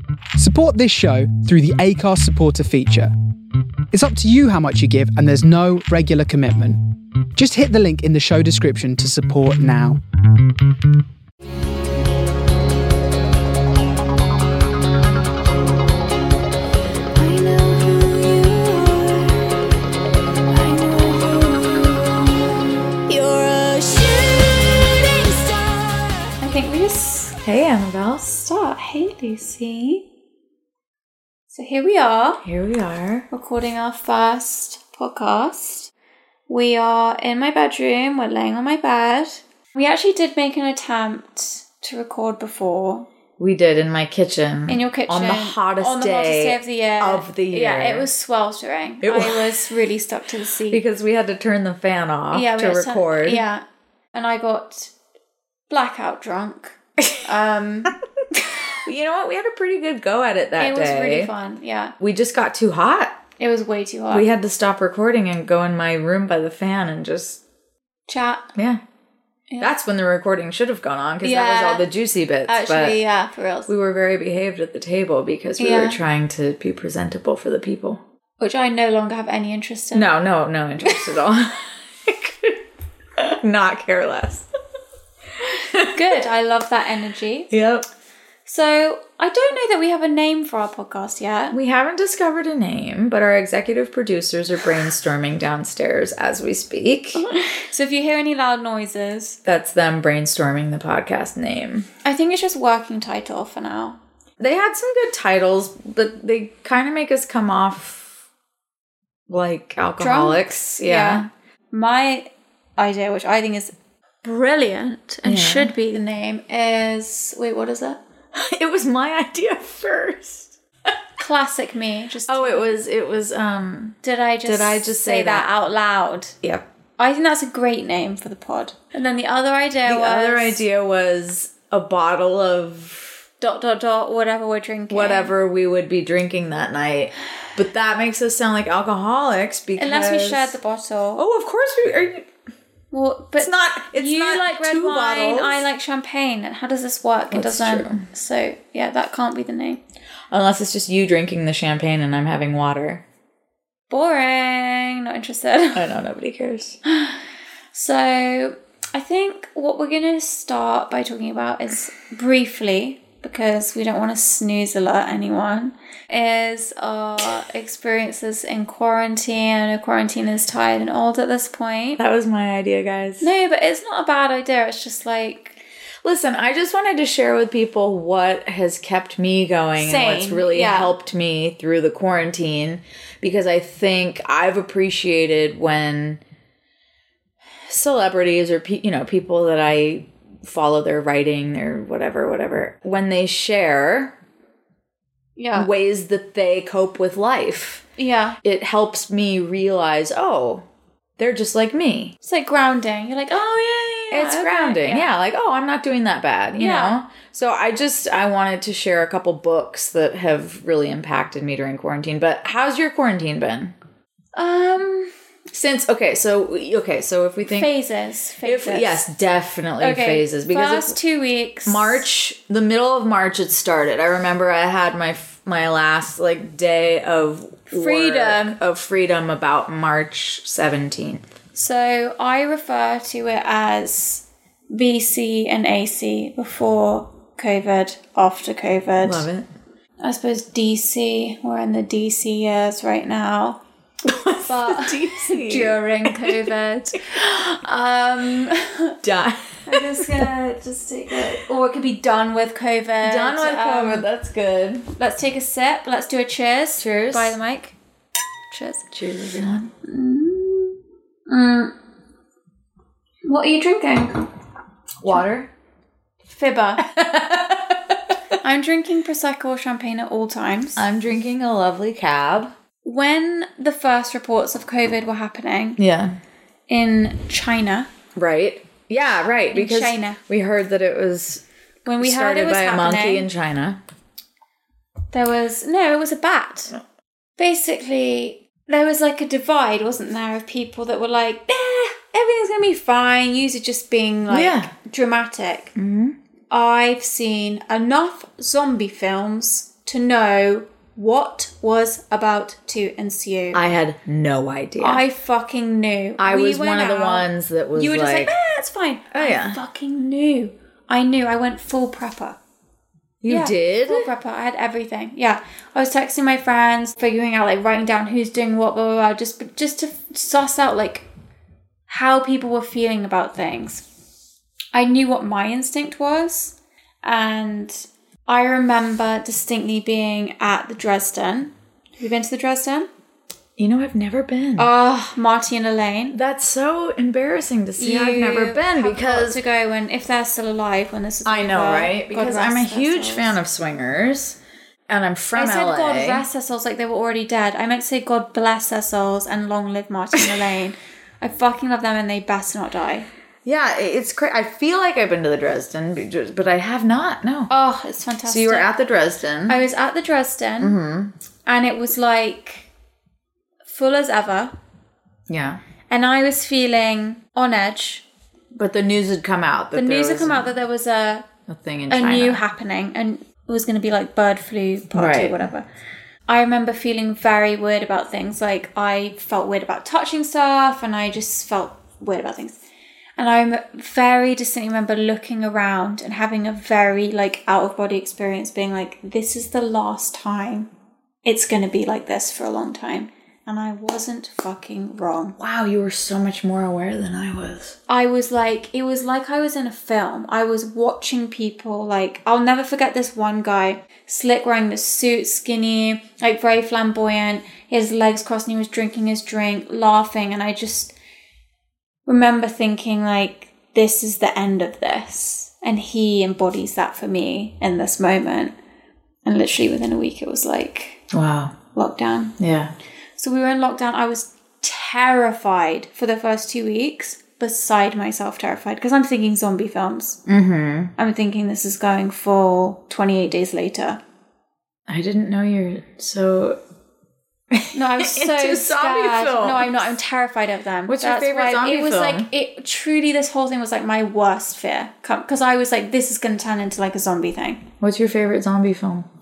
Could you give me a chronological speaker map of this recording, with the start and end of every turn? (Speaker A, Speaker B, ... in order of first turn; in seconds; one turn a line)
Speaker A: 0.3-3.1
Speaker A: 3.9-6.8
Speaker A: 7.3-10.0
Speaker B: 17.1-19.7
Speaker B: 20.5-26.3
Speaker C: 26.4-27.4
Speaker B: 27.4-28.5
Speaker C: 28.4-30.0
Speaker C: 31.5-32.4
Speaker B: 32.4-33.3
Speaker C: 33.3-35.9
Speaker C: 36.5-43.1
Speaker B: 43.4-48.1
Speaker C: 44.7-50.8
Speaker B: 49.0-49.7
Speaker B: 50.7-53.4
Speaker C: 52.3-54.9
Speaker C: 55.7-58.0
Speaker B: 58.8-61.3
Speaker C: 60.6-61.9
Speaker B: 62.0-63.2
Speaker C: 63.4-64.3
Speaker B: 64.1-67.4
Speaker C: 68.1-68.5
Speaker B: 68.5-68.8
Speaker B: 69.6-73.0
Speaker C: 71.2-71.8
Speaker C: 72.5-73.7
Speaker B: 73.7-78.0
Speaker C: 75.6-76.0
Speaker C: 78.4-80.1
Speaker B: 79.9-82.6
Speaker B: 83.2-84.5
Speaker B: 85.6-86.1
Speaker C: 85.8-87.5
Speaker B: 87.5-87.9
Speaker C: 88.5-91.6
Speaker B: 91.5-97.2
Speaker C: 97.1-99.4
Speaker B: 99.4-101.9
Speaker C: 102.0-104.0
Speaker B: 104.4-108.1
Speaker B: 109.3-111.3
Speaker C: 110.0-118.0
Speaker B: 115.2-115.7
Speaker B: 118.3-120.5
Speaker C: 121.2-122.7
Speaker B: 122.3-125.5
Speaker C: 124.0-126.3
Speaker C: 127.0-130.6
Speaker B: 129.8-133.2
Speaker C: 133.4-135.3
Speaker B: 134.9-140.5
Speaker C: 139.8-141.2
Speaker B: 141.2-142.3
Speaker C: 142.9-149.8
Speaker B: 143.4-145.6
Speaker B: 147.3-148.0
Speaker B: 150.3-153.0
Speaker C: 153.9-155.9
Speaker B: 155.7-156.8
Speaker C: 156.8-157.2
Speaker C: 157.7-172.0
Speaker B: 172.0-173.3
Speaker C: 173.2-175.6
Speaker B: 176.0-186.2
Speaker C: 179.8-180.9
Speaker B: 187.7-194.1
Speaker C: 195.4-195.7
Speaker B: 195.5-197.8
Speaker C: 198.0-198.4
Speaker B: 198.4-200.7
Speaker B: 201.2-202.1
Speaker C: 202.2-205.1
Speaker B: 204.1-213.7
Speaker C: 206.6-207.0
Speaker C: 214.3-215.1
Speaker B: 215.5-217.7
Speaker C: 217.5-219.1
Speaker B: 218.4-220.9
Speaker C: 219.8-222.1
Speaker B: 221.7-231.3
Speaker C: 227.7-228.6
Speaker C: 231.5-239.3
Speaker B: 239.0-239.5
Speaker C: 240.0-243.6
Speaker B: 244.0-246.4
Speaker C: 244.4-249.0
Speaker B: 247.1-247.4
Speaker B: 249.0-250.3
Speaker C: 249.7-254.1
Speaker B: 253.0-254.9
Speaker C: 254.9-257.7
Speaker B: 256.8-257.4
Speaker C: 258.5-258.9
Speaker B: 258.9-259.7
Speaker C: 259.8-261.7
Speaker C: 263.2-264.3
Speaker B: 265.0-265.5
Speaker C: 266.3-266.8
Speaker B: 266.8-268.1
Speaker C: 268.4-270.8
Speaker B: 270.8-272.5
Speaker C: 272.8-275.8
Speaker B: 275.8-276.2
Speaker C: 276.7-277.9
Speaker B: 278.1-281.4
Speaker C: 279.5-280.2
Speaker C: 281.8-283.3
Speaker B: 282.0-283.8
Speaker C: 285.1-286.8
Speaker C: 287.4-295.7
Speaker B: 294.3-294.7
Speaker B: 295.8-296.2
Speaker C: 296.5-303.6
Speaker B: 303.5-305.0
Speaker C: 304.8-312.4
Speaker B: 306.2-308.4
Speaker B: 309.1-309.6
Speaker B: 313.2-314.1
Speaker C: 313.3-321.1
Speaker C: 321.9-323.8
Speaker C: 324.7-332.9
Speaker B: 333.6-334.7
Speaker C: 334.6-336.2
Speaker B: 336.1-339.4
Speaker C: 337.8-343.4
Speaker B: 341.2-344.4
Speaker B: 344.9-346.2
Speaker C: 345.3-353.1
Speaker B: 353.4-357.5
Speaker C: 357.5-358.7
Speaker B: 358.2-359.6
Speaker C: 359.5-360.8
Speaker B: 360.6-361.1
Speaker C: 361.4-362.7
Speaker C: 363.6-364.5
Speaker B: 365.3-365.6
Speaker C: 365.9-368.0
Speaker B: 368.5-370.6
Speaker C: 369.7-371.3
Speaker B: 371.5-372.4
Speaker C: 371.9-375.6
Speaker B: 374.9-375.4
Speaker C: 376.3-382.6
Speaker C: 383.2-390.7
Speaker C: 391.2-395.4
Speaker B: 395.4-397.8
Speaker C: 397.9-410.9
Speaker C: 412.1-418.5
Speaker C: 419.2-421.0
Speaker B: 421.1-421.5
Speaker C: 421.7-422.3
Speaker B: 422.4-422.7
Speaker C: 423.2-430.2
Speaker B: 430.2-430.9
Speaker C: 431.0-434.0
Speaker B: 434.9-436.6
Speaker B: 437.5-439.8
Speaker C: 437.7-447.6
Speaker B: 440.9-442.3
Speaker B: 447.8-449.1